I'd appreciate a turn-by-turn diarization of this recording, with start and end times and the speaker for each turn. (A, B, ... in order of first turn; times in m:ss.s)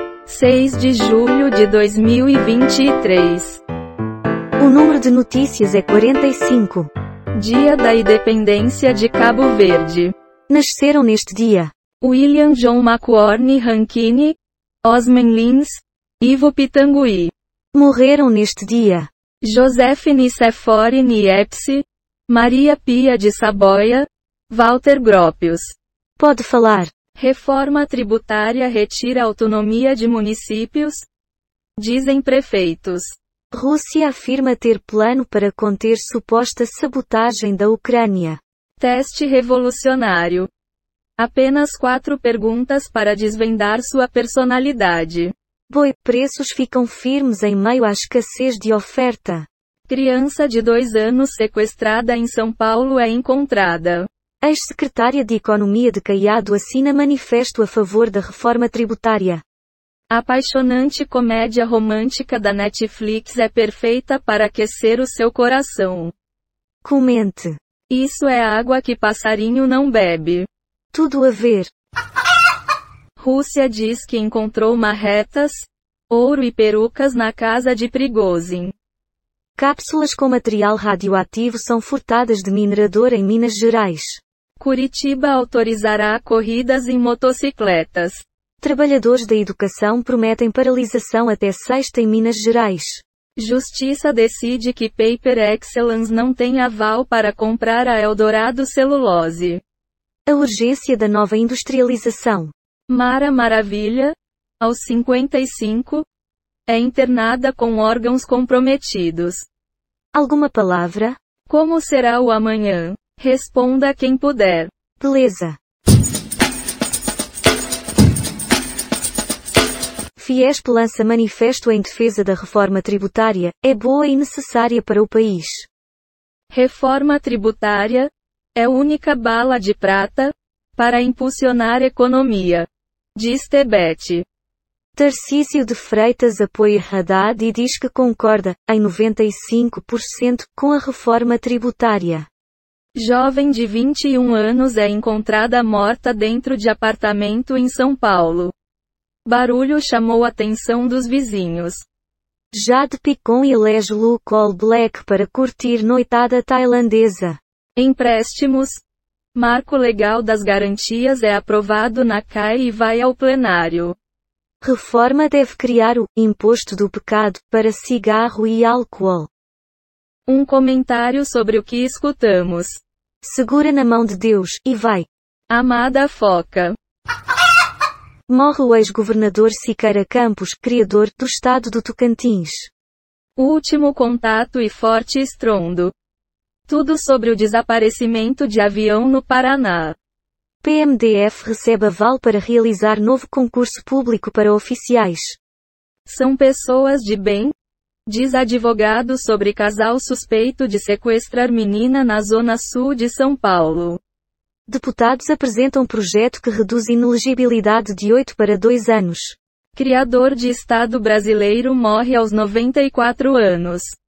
0:00.3-0:03.6 A
0:04.6-0:06.9 B
0:07.4-0:10.5 A
0:10.5-0:11.7 B
0:12.0-0:17.3 A
0:17.8-0:19.1 B
0:19.4-0:26.2 A
0:26.2-0:26.9 B
0:27.2-0:31.1 A
0:31.8-0:33.1 A
0:33.5-0:38.4 B
0:38.8-0:40.5 A
0:41.2-0:45.7 A
0:45.7-0:49.5 B
0:49.9-0:54.5 A
0:54.5-0:59.4 B
1:00.1-1:06.1 A
1:06.8-1:07.6 B
1:07.9-1:10.5 A
1:11.0-1:11.7 B
1:13.2-1:18.7 A
1:19.6-1:24.2 B
1:24.6-1:28.2 A
1:28.6-1:33.0 B
1:33.4-1:39.6 A
1:40.3-1:42.5 B
1:42.9-1:46.0 A
1:46.7-1:49.4 A
1:50.2-1:51.2 B
1:51.5-1:55.0 A
1:55.0-1:55.6 B
2:00.2-2:05.7 B
2:06.5-2:14.2 A
2:15.0-2:22.3 B
2:23.0-2:28.5 A
2:29.3-2:31.8 A
2:32.5-2:37.4 B
2:37.8-2:38.8 A
2:39.4-2:43.9 A
2:44.6-2:49.3 B
2:50.3-2:52.8 A
2:52.7-2:55.1 B
2:55.5-2:56.8 A
2:58.3-3:02.7 B
3:03.4-3:05.9 A
3:06.7-3:09.9 A
3:10.6-3:15.4 B
3:16.1-3:17.5 A
3:18.1-3:24.0 A
3:24.7-3:29.3 B
3:29.8-3:34.0 A